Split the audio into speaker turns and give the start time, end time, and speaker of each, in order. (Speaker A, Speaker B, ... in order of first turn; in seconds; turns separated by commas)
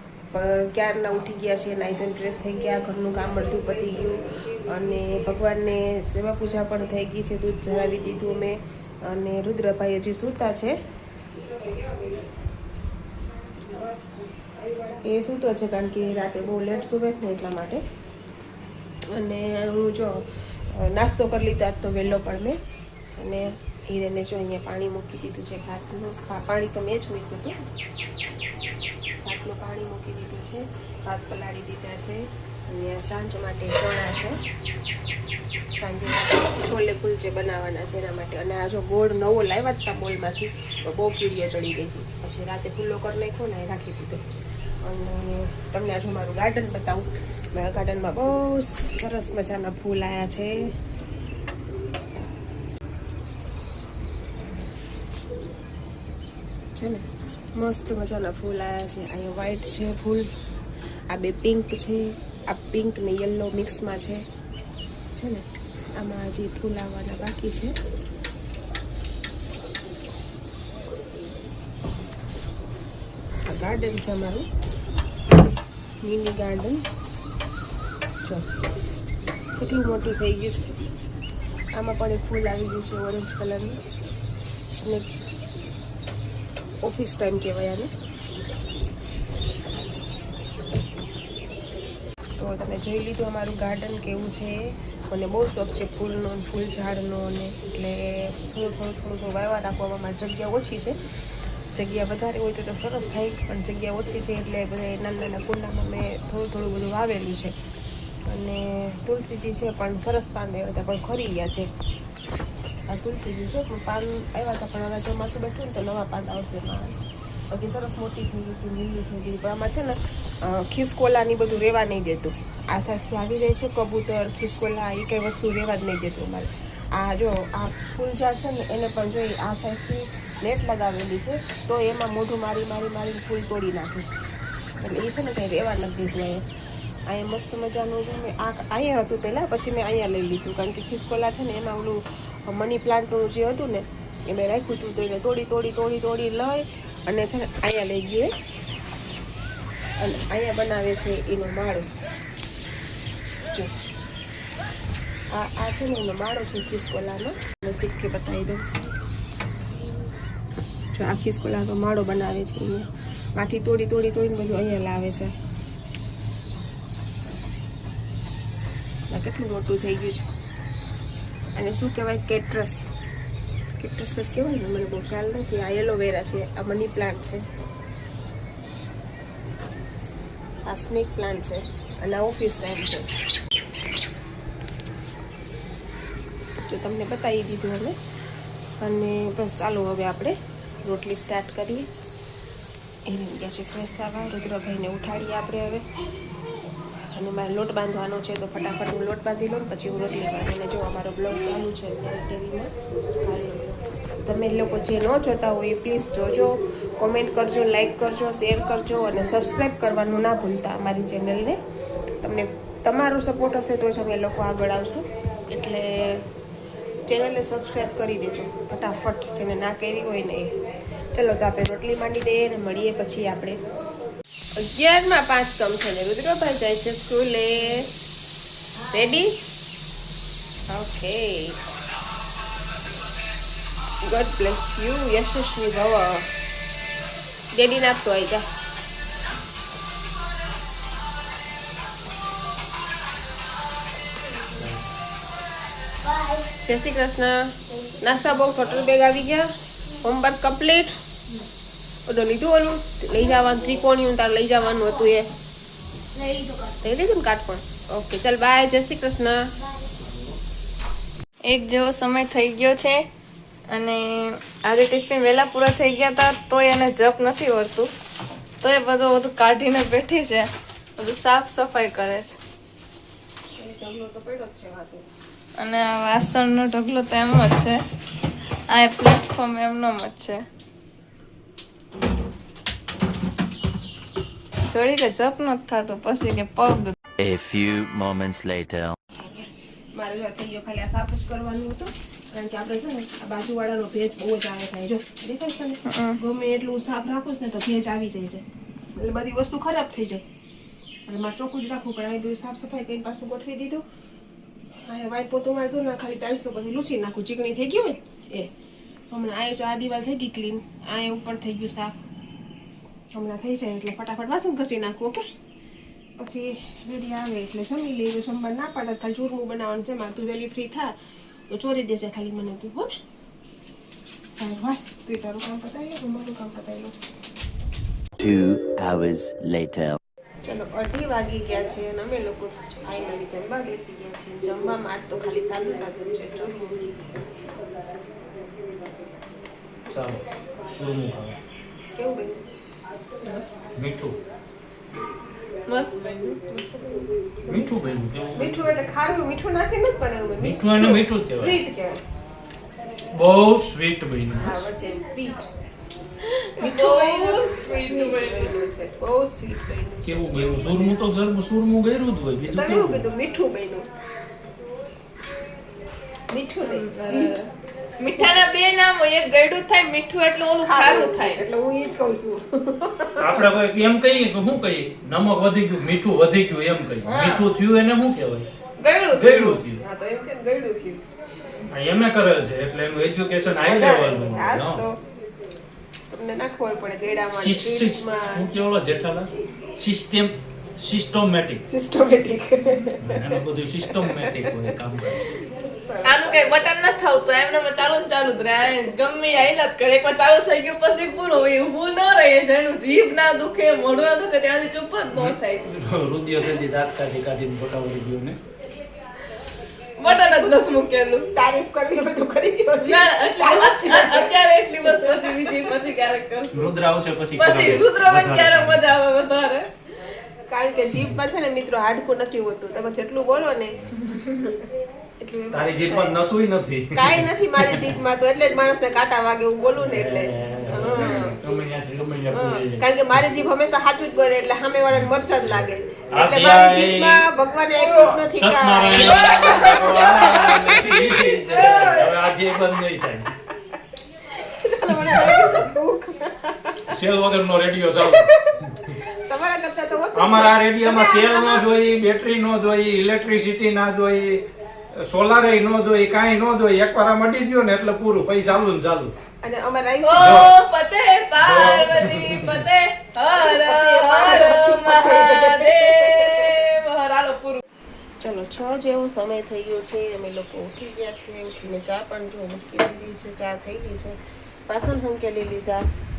Speaker A: 0.3-10.7, Speaker A: 15.0-17.8, Speaker A: 19.1-20.2, Speaker A: 20.7-22.6, Speaker A: 23.2-27.6, Speaker A: 29.2-34.4, Speaker A: 35.7-44.2, Speaker A: 44.8-50.5, Speaker A: 56.8-57.0, Speaker A: 57.6-60.3, Speaker A: 61.1-64.2, Speaker A: 65.2-65.4, Speaker A: 66.0-67.7, Speaker A: 73.5-74.5, Speaker A: 76.0-76.8, Speaker A: 79.6-80.7, Speaker A: 81.7-83.8, Speaker A: 84.7-85.1, Speaker A: 86.8-87.9, Speaker A: 92.4-94.6, Speaker A: 95.1-101.0, Speaker A: 101.7-107.5, Speaker A: 108.2-111.7, Speaker A: 112.9-117.0, Speaker A: 117.5-134.2, Speaker A: 134.8-136.4, Speaker A: 137.1-148.3, Speaker A: 150.0-151.9, Speaker A: 155.3-158.6, Speaker A: 160.9-165.3, Speaker A: 169.1-170.3, Speaker A: 171.6-172.9, Speaker A: 173.8-177.4, Speaker A: 180.7-183.1, Speaker A: 186.7-187.9, Speaker A: 188.8-191.9, Speaker A: 193.1-195.8, Speaker A: 197.1-211.6, Speaker A: 212.2-216.3, Speaker A: 217.1-220.6, Speaker A: 221.1-223.6, Speaker A: 224.6-227.9, Speaker B: 228.8-229.2, Speaker A: 228.9-229.3, Speaker A: 230.7-231.6, Speaker A: 234.0-236.3, Speaker A: 237.5-238.4, Speaker B: 244.3-244.6, Speaker C: 244.6-244.8, Speaker B: 246.0-246.5, Speaker A: 246.7-250.9, Speaker B: 247.7-248.6, Speaker A: 252.1-255.3, Speaker B: 253.1-253.8, Speaker B: 254.6-255.2, Speaker B: 256.1-256.9, Speaker A: 256.8-259.4, Speaker B: 259.6-260.1, Speaker D: 261.5-263.0, Speaker D: 263.7-267.9, Speaker D: 268.6-272.4, Speaker A: 273.6-275.1, Speaker D: 275.6-277.8, Speaker D: 278.7-280.4, Speaker D: 284.7-286.9, Speaker E: 287.2-289.0, Speaker A: 289.2-298.4, Speaker D: 295.9-296.2, Speaker A: 299.0-300.2, Speaker A: 301.1-303.8, Speaker A: 304.9-308.5, Speaker A: 309.1-311.9, Speaker A: 313.1-315.2, Speaker A: 316.2-320.9, Speaker A: 321.5-322.9, Speaker A: 324.4-326.9, Speaker E: 328.2-330.0, Speaker A: 330.4-337.1, Speaker C: 339.9-340.2, Speaker C: 340.8-341.4, Speaker A: 342.0-342.4, Speaker D: 343.2-343.6, Speaker C: 343.8-344.2, Speaker D: 345.7-346.9, Speaker A: 346.7-347.7, Speaker C: 347.5-348.7, Speaker A: 348.4-352.0, Speaker C: 350.4-351.6, Speaker C: 353.1-354.6, Speaker A: 354.3-355.5, Speaker D: 356.2-358.6, Speaker A: 356.6-361.0, Speaker C: 360.1-363.1, Speaker A: 362.5-363.9, Speaker A: 366.3-367.3, Speaker D: 366.6-371.4, Speaker A: 370.6-373.5, Speaker C: 373.2-378.5, Speaker D: 377.1-377.5, Speaker D: 378.8-379.6, Speaker C: 379.1-379.8, Speaker A: 379.8-381.0, Speaker C: 381.7-384.8, Speaker A: 383.6-385.0, Speaker A: 386.1-388.5, Speaker C: 387.3-391.6, Speaker A: 391.6-393.3, Speaker C: 393.0-395.3, Speaker A: 393.9-394.5, Speaker A: 395.4-396.7, Speaker D: 396.0-405.7, Speaker C: 405.1-408.4, Speaker D: 410.0-411.3, Speaker A: 410.0-410.7, Speaker A: 411.3-415.7, Speaker D: 412.9-416.7, Speaker C: 416.5-418.9, Speaker D: 417.4-419.7, Speaker A: 420.5-423.9, Speaker A: 425.2-426.2, Speaker C: 425.5-427.9, Speaker A: 426.9-431.4, Speaker C: 429.8-432.9, Speaker A: 432.3-442.1, Speaker C: 436.1-437.2, Speaker D: 437.8-438.2, Speaker C: 438.2-443.3, Speaker D: 438.9-442.0, Speaker A: 444.4-446.8, Speaker C: 445.0-445.5, Speaker C: 446.9-448.3, Speaker A: 448.0-451.6, Speaker C: 450.1-454.4, Speaker C: 455.0-459.1, Speaker A: 459.4-460.5, Speaker D: 460.0-467.6, Speaker C: 460.2-460.5, Speaker C: 461.4-462.6, Speaker A: 463.4-466.5, Speaker A: 468.2-474.2, Speaker A: 474.7-475.9